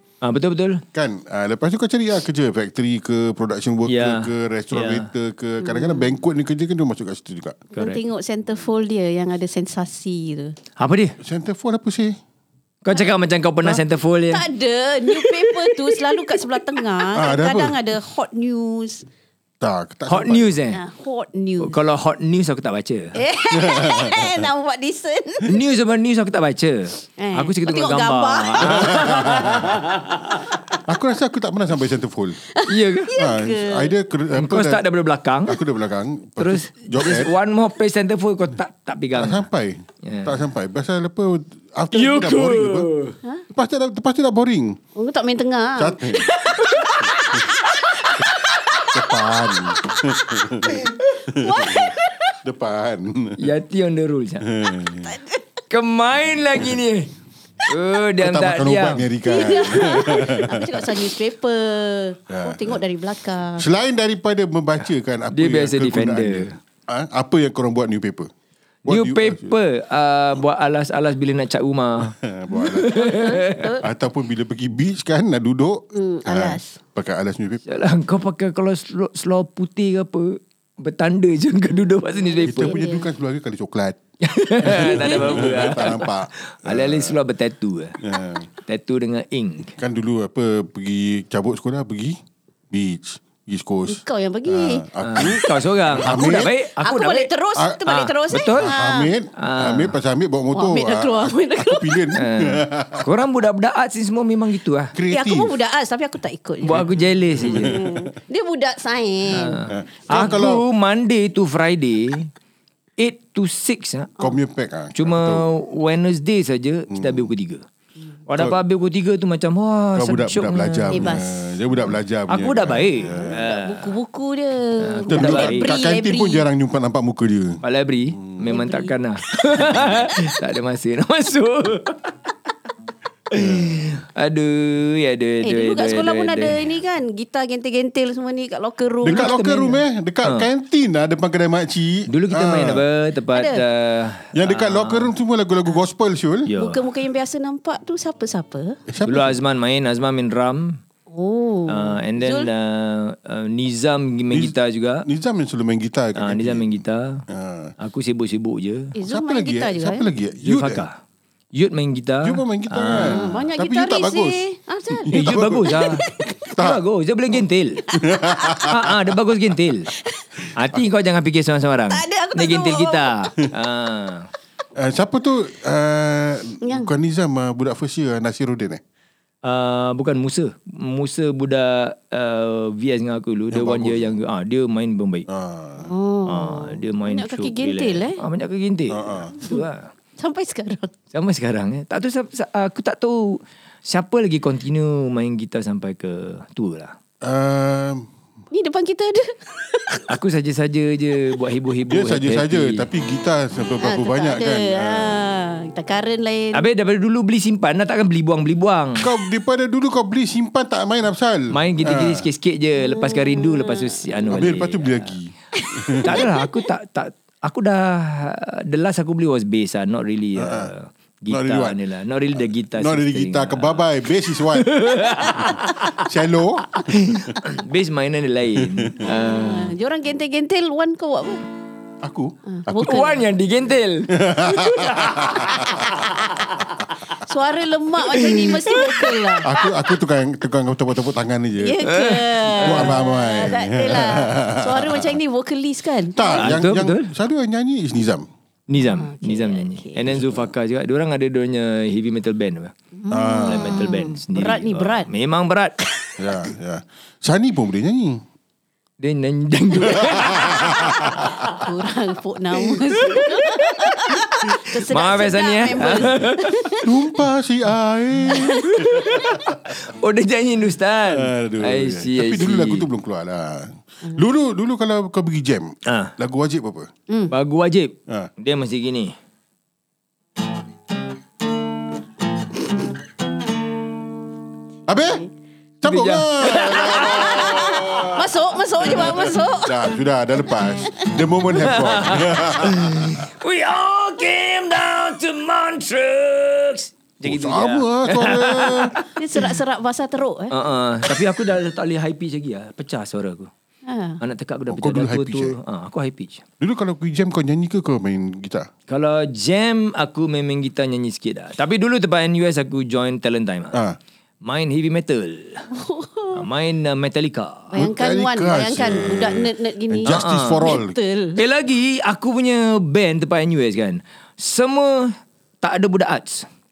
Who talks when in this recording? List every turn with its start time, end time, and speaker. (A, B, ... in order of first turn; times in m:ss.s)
0:00.2-0:00.8 A
0:00.9-0:07.6 B
0:03.9-0:05.1 A
0:05.6-0:06.1 C
0:07.7-0:10.6 C
0:07.7-0:08.0 A
0:10.8-0:11.2 A
0:11.2-0:12.2 B
0:12.8-0:14.4 A
0:14.3-0:19.1 C
0:15.1-0:16.2 A
0:17.1-0:17.8 B
0:19.6-0:20.5 B
0:20.1-0:20.8 A
0:20.7-0:21.8 C
0:21.6-0:23.2 A
0:23.2-0:25.5 C
0:23.5-0:24.5 B
0:25.4-0:30.2 A
0:27.2-0:29.6 C
0:28.7-0:29.8 B
0:30.8-0:32.4 B
0:32.5-0:34.0 C
0:32.7-0:33.1 A
0:33.1-0:34.9 B
0:34.3-0:35.6 A
0:35.5-0:37.3 B
0:36.4-0:39.4 A
0:39.2-0:42.9 B
0:40.0-0:40.4 A
0:41.9-0:43.2 A
0:43.5-0:44.8 B
0:45.0-0:47.9 C
0:45.8-0:46.3 B
0:46.4-0:47.4 A
0:48.9-0:53.4 B
0:51.4-0:52.3 C
0:53.4-0:54.5 A
0:54.4-0:55.2 B
0:55.0-0:55.4 C
0:55.7-0:57.1 A
0:57.7-0:59.1 A
0:58.2-1:01.0 B
0:59.2-1:03.7 C
1:02.3-1:02.8 B
1:03.6-1:08.3 B
1:05.3-1:06.6 A
1:08.9-1:09.5 B
1:08.9-1:13.8 A
1:12.1-1:17.6 B
1:13.0-1:13.8 C
1:15.9-1:16.8 C
1:17.7-1:22.8 A
1:22.2-1:23.1 C
1:22.4-1:24.0 B
1:24.2-1:28.0 A
1:24.6-1:27.2 B
1:24.8-1:25.8 C
1:28.0-1:28.5 B
1:28.6-1:29.8 A
1:29.8-1:32.2 B
1:32.7-1:36.5 B
1:33.9-1:35.4 C
1:35.0-1:37.3 A
1:36.8-1:39.1 C
1:37.6-1:37.8 B
1:37.8-1:38.8 A
1:38.4-1:43.1 B
1:39.4-1:39.9 A
1:40.5-1:42.1 C
1:42.2-1:45.0 A
1:44.9-1:45.5 B
1:45.1-1:50.3 C
1:46.6-1:47.8 A
1:47.4-1:48.0 B
1:49.3-1:52.3 A
1:49.7-1:50.6 B
1:53.0-1:54.1 A
1:54.2-1:55.5 B
1:54.9-1:57.6 A
1:56.9-1:57.3 B
1:58.3-2:01.2 A
2:00.0-2:03.4 B
2:00.9-2:01.5 C
2:02.3-2:03.9 A
2:03.0-2:06.5 C
2:04.8-2:05.7 A
2:05.1-2:07.6 B
2:07.6-2:12.1 A
2:08.5-2:08.9 C
2:13.3-2:16.6 A
2:13.3-2:13.8 B
2:15.4-2:19.4 C
2:19.0-2:20.5 A
2:19.0-2:22.8 B
2:22.1-2:25.1 A
2:23.3-2:23.6 C
2:24.3-2:26.5 B
2:26.5-2:26.8 A
2:26.6-2:28.8 C
2:28.9-2:29.4 B
2:29.0-2:30.8 A
2:31.1-2:32.5 C
2:31.7-2:35.1 A
2:34.3-2:37.8 B
2:36.2-2:37.2 A
2:37.8-2:38.9 A
2:39.0-2:40.1 C
2:39.0-2:40.8 B
2:40.4-2:41.0 A
2:41.5-2:43.4 A
2:42.2-2:45.8 B
2:43.0-2:46.5 C
2:45.1-2:47.9 A
2:46.4-2:46.8 B
2:47.9-2:49.2 B
2:48.6-2:49.9 A
2:50.6-2:54.3 A
2:51.9-2:53.2 C
2:54.8-2:58.8 B
2:56.6-2:56.9 C
2:59.4-3:05.3 A
3:03.5-3:04.2 B
3:05.3-3:05.9 B
3:05.8-3:08.2 C
3:06.3-3:09.9 A
3:08.9-3:09.3 B
3:10.2-3:10.9 C
3:11.1-3:17.0 A
3:17.2-3:18.1 B
3:18.5-3:20.1 C
3:20.1-3:22.9 A
3:21.9-3:25.2 B
3:23.8-3:26.7 C
3:26.5-3:29.1 A
3:29.0-3:32.3 B
3:31.5-3:35.1 A
3:32.8-3:34.0 C
3:34.3-3:36.3 B
3:35.6-3:36.4 C
3:36.0-3:46.1 A
3:40.4-3:40.7 B
3:41.3-3:41.8 B
3:42.4-3:44.7 B
3:45.3-3:47.4 B
3:46.7-3:49.8 A
3:48.6-3:49.1 B
3:49.0-3:51.4 C
3:52.0-3:53.1 B
3:52.5-3:53.2 C
3:52.8-3:56.9 A
3:54.1-3:56.2 B
3:57.2-3:59.7 C
3:58.1-3:59.4 A
3:59.4-4:01.9 B
4:01.6-4:06.6 C
4:01.9-4:03.0 A
4:02.6-4:05.2 B
4:06.2-4:08.3 B
4:06.4-4:07.1 A
4:08.7-4:12.7 A
4:09.0-4:10.1 C
4:10.1-4:10.5 B
4:13.0-4:15.1 C
4:13.1-4:13.9 B
4:13.5-4:15.8 A
4:16.2-4:18.2 B
4:19.0-4:21.4 A
4:20.0-4:21.3 B
4:21.0-4:27.1 C
4:23.0-4:26.7 A
4:26.8-4:29.6 B
4:28.3-4:29.3 C
4:28.7-4:32.9 A
4:31.1-4:36.9 B
4:35.9-4:36.1 A
4:37.3-4:39.2 A
4:44.9-4:45.2 B
4:45.8-4:53.3 B
4:45.8-4:48.1 A
4:46.9-4:50.0 C
4:50.8-4:51.1 C
4:51.6-4:59.5 A
4:57.2-4:59.0 B
4:59.2-5:00.5 C
5:00.5-5:03.5 A
5:03.8-5:04.2 C
5:04.2-5:06.4 A
5:04.7-5:05.6 B
5:06.6-5:08.7 B
5:08.9-5:13.8 A
5:13.7-5:14.0 B
5:14.4-5:15.7 A
5:15.7-5:16.4 C
5:16.3-5:17.8 A
5:17.7-5:21.4 C
5:17.8-5:21.0 B
5:20.1-5:20.8 A
5:21.4-5:26.5 A